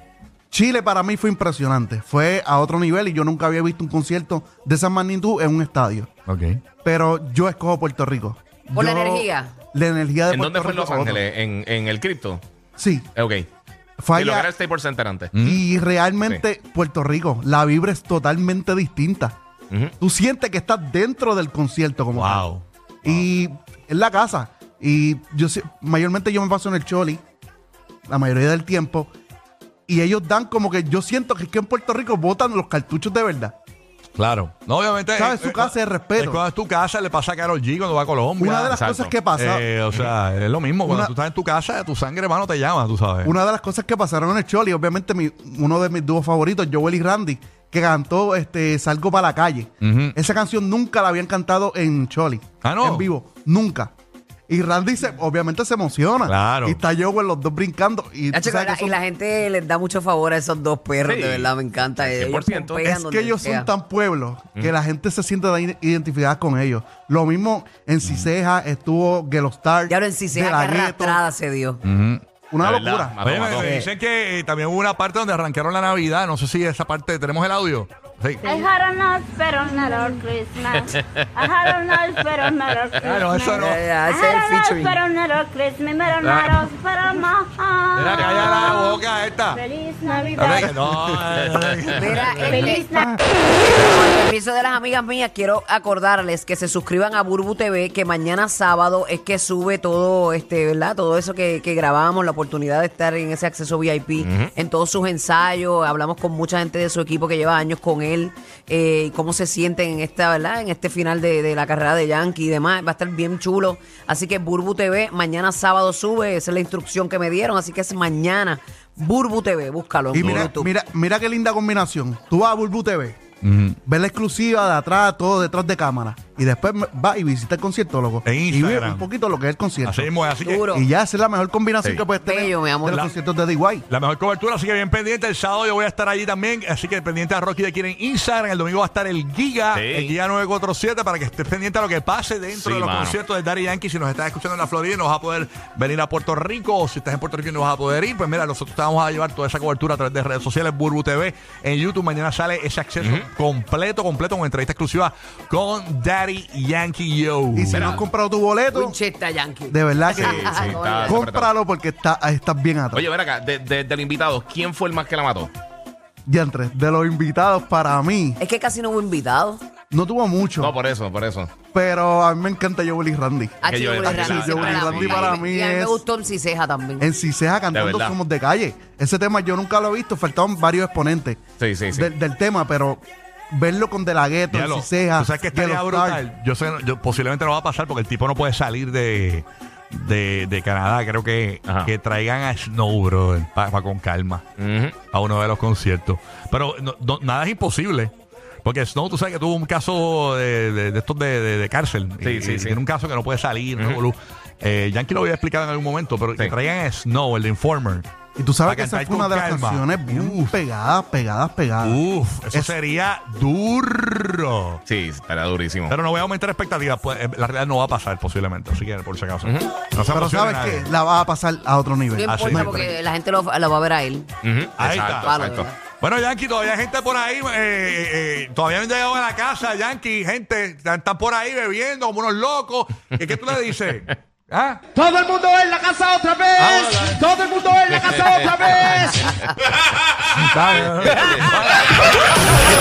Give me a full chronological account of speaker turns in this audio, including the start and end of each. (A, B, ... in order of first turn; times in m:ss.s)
0:00.5-0:06.1 A
0:06.3-0:06.6 B
0:06.8-0:11.2 A
0:08.7-0:09.5 C
0:10.3-0:12.4 D
0:12.8-0:13.1 A
0:13.2-0:13.5 D
0:14.0-0:14.5 A
0:14.1-0:15.3 D
0:15.3-0:15.6 B
0:15.4-0:19.4 A
0:20.0-0:22.4 A
0:22.1-0:22.6 B
0:23.0-0:27.2 A
0:28.1-0:29.1 A
0:29.9-0:33.5 A
0:34.2-0:38.8 B
0:35.1-0:36.4 A
0:38.4-0:39.7 A
0:38.7-0:39.1 D
0:39.3-0:43.3 B
0:40.8-0:41.1 A
0:43.2-0:53.9 A
0:49.8-0:50.2 B
0:52.6-0:53.1 B
0:54.5-0:59.0 A
0:56.2-0:56.8 B
0:58.3-1:03.7 C
1:01.0-1:02.9 D
1:02.8-1:11.2 A
1:09.9-1:11.8 C
1:11.8-1:12.2 B
1:12.5-1:13.2 A
1:12.6-1:13.9 D
1:13.2-1:18.5 B
1:18.4-1:30.9 E
1:21.9-1:22.2 D
1:23.0-1:23.8 B
1:23.5-1:25.0 C
1:26.2-1:26.7 B
1:27.9-1:29.6 B
1:30.4-1:33.2 B
1:31.9-1:33.1 C
1:32.4-1:33.2 E
1:33.7-2:00.7 C
1:44.2-1:44.5 D
2:00.1-2:03.2 A
2:00.2-2:00.5 D
2:03.4-2:03.8 B
2:03.8-2:10.1 A
2:08.2-2:09.1 B
2:09.8-2:10.7 B
2:10.4-2:10.9 C
2:10.7-2:13.8 A
2:12.2-2:13.0 C
2:12.9-2:13.1 B
2:13.9-2:38.0 B
2:19.7-2:20.1 D
2:22.5-2:23.2 D
2:33.0-2:33.3 D
2:37.5-2:39.0 A
2:37.7-2:38.0 D
2:38.7-2:41.2 C
2:39.7-2:43.1 A
2:40.1-2:41.5 D
2:42.9-2:45.5 D
2:46.2-2:48.4 A
2:48.4-2:49.6 C
2:49.9-2:50.8 A
2:50.6-2:51.5 D
2:51.7-2:56.0 A
2:53.6-2:57.1 C
2:53.6-2:55.4 D
2:57.0-3:06.2 A
2:57.7-2:58.2 D
3:01.6-3:02.1 D
3:04.5-3:14.4 B
3:11.6-3:11.9 D
3:14.6-3:15.0 D
3:15.1-3:18.1 B
3:18.6-3:28.1 B
3:22.2-3:22.8 D
3:28.4-3:32.8 A
3:28.6-3:30.6 B
3:31.8-3:34.8 B
3:34.9-3:36.0 D
3:35.9-3:40.9 B
3:39.4-3:39.7 D
3:40.1-3:42.8 A
3:42.1-3:44.3 C
3:42.3-3:42.9 B
3:44.4-3:45.7 D
3:44.8-3:45.5 B
3:45.2-3:45.8 C
3:46.0-3:54.9 B
3:53.2-3:53.7 D
3:55.0-3:56.5 F
3:56.5-3:57.4 B
3:57.1-3:59.2 F
3:57.9-3:58.4 D
3:58.4-3:59.1 B
4:00.3-4:01.9 B